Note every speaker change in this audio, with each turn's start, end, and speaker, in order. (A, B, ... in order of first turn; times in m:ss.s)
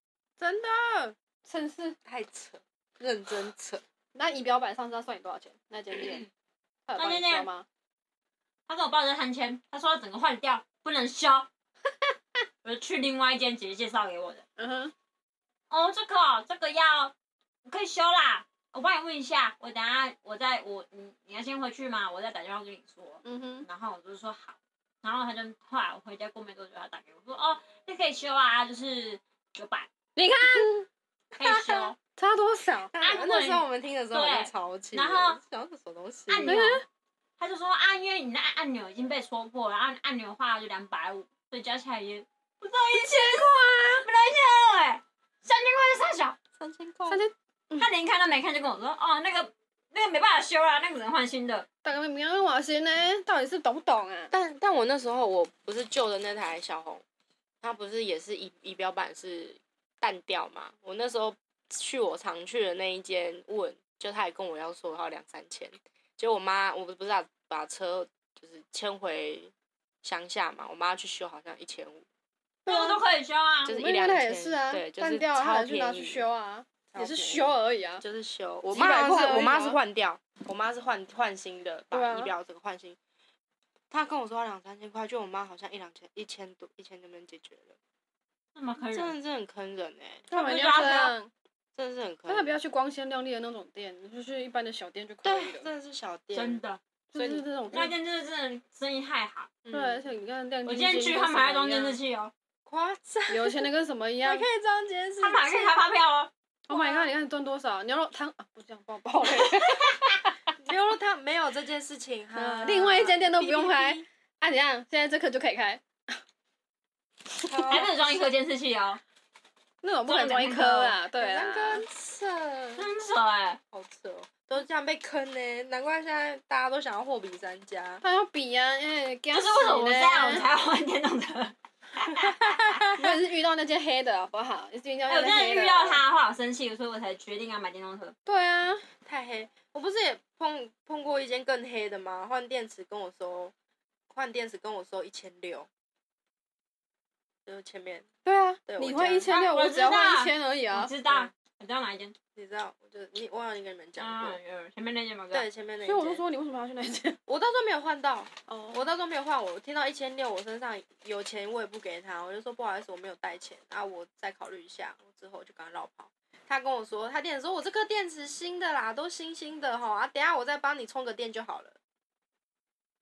0:00.4-0:01.1 A
0:01.4-0:02.0 B
0:02.0-0:03.8 A
0:04.1-0:06.3 B
0:06.9-0:07.6 B
0:07.0-0:07.5 C
0:08.7-0:11.5 C
0:12.6-0:14.4 C
0:14.6-0:14.9 B
0:15.7-0:17.1 C
0:17.6-0:29.9 C
0:23.2-0:23.7 B
0:30.2-0:30.9 B
0:31.4-0:32.0 C
0:31.4-0:32.9 B
0:32.9-0:36.6 A
0:32.9-0:35.4 C
0:36.3-0:36.8 C
0:36.4-0:36.8 B
0:37.4-0:46.4 C
0:42.9-0:44.0 B
0:46.6-0:47.2 A
0:47.1-0:47.9 B
0:47.8-0:51.7 C
0:51.8-0:54.3 B
0:54.3-0:57.0 A
0:57.6-1:12.0 A
1:12.6-1:13.0 A
1:12.6-1:13.8 C
1:13.6-1:16.2 A
1:13.7-1:18.0 B
1:16.9-1:23.0 A
1:18.7-1:19.8 B
1:21.9-1:22.3 B
1:23.9-1:27.8 A
1:28.5-1:29.2 C
1:28.9-1:30.3 A
1:30.3-1:31.3 B
1:30.3-1:31.1 C
1:31.7-1:32.6 A
1:32.3-1:35.7 B
1:35.2-1:36.6 A
1:36.3-1:36.8 C
1:37.1-1:37.9 B
1:37.1-1:37.9 A
1:37.7-1:39.5 C
1:39.6-1:40.0 A
1:39.7-1:42.0 B
1:40.6-1:42.3 C
1:42.6-1:43.7 A
1:43.3-1:44.4 B
1:44.2-1:45.8 A
1:45.2-1:46.3 C
1:46.7-1:50.4 B
1:46.7-1:47.1 A
1:50.5-1:54.0 A
1:52.3-1:55.8 B
1:57.4-1:58.2 A
1:57.7-1:59.0 C
1:59.8-2:01.8 B
2:00.0-2:01.0 C
2:01.1-2:02.9 A
2:02.8-2:03.6 C
2:03.7-2:08.0 A
2:08.0-2:10.6 B
2:09.3-2:12.5 C
2:12.2-2:13.2 A
2:12.9-2:16.0 B
2:15.1-2:18.1 C
2:18.2-2:18.9 B
2:19.0-2:23.5 A
2:24.1-2:25.7 A
2:27.4-2:28.0 A
2:28.2-2:30.9 B
2:28.7-2:29.4 A
2:29.3-2:32.1 C
2:32.3-2:34.4 A
2:34.0-2:35.5 C
2:35.3-2:36.2 A
2:35.8-2:37.2 B
2:37.3-2:51.8 A
2:38.5-2:38.8 B